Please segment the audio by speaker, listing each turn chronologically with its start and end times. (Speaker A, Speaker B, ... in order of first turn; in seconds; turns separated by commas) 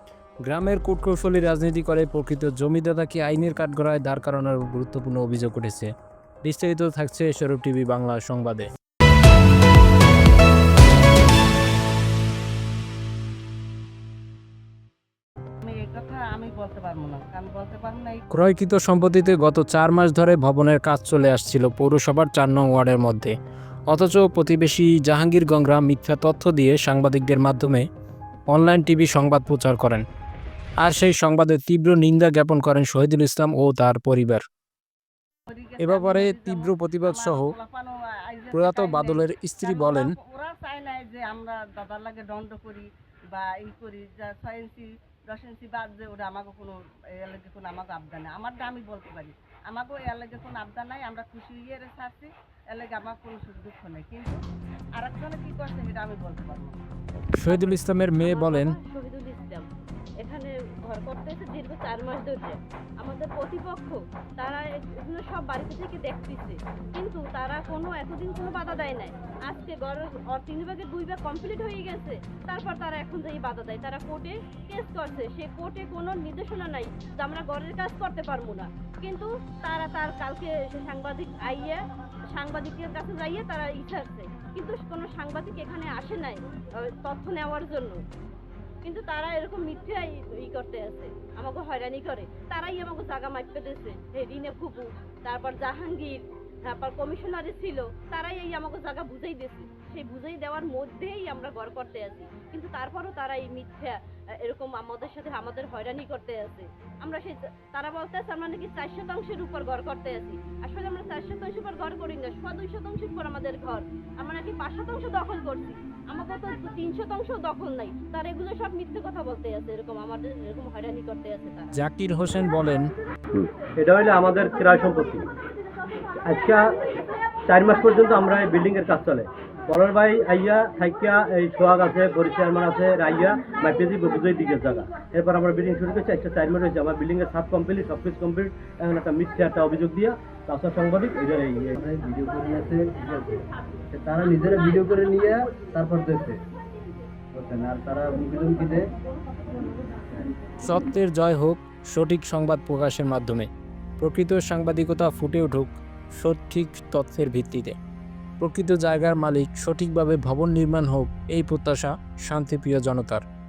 Speaker A: 0.4-5.9, Speaker A: 6.4-8.7, Speaker B: 15.6-18.2, Speaker A: 18.3-23.3, Speaker A: 23.9-27.9, Speaker A: 28.5-30.1, Speaker A: 30.8-34.4, Speaker B: 35.5-54.4, Speaker A: 35.8-37.5, Speaker A: 38.5-40.1, Speaker B: 55.0-56.8, Speaker A: 57.3-58.8, Speaker C: 57.5-59.7, Speaker C: 60.2-81.8, Speaker C: 82.3-88.0, Speaker C: 88.8-121.8, Speaker A: 121.7-122.9, Speaker D: 123.3-125.3, Speaker D: 126.2-126.8, Speaker D: 127.5-141.8, Speaker E: 141.8-146.4, Speaker E: 147.3-148.9, Speaker A: 150.6-157.8, Speaker A: 158.4-163.2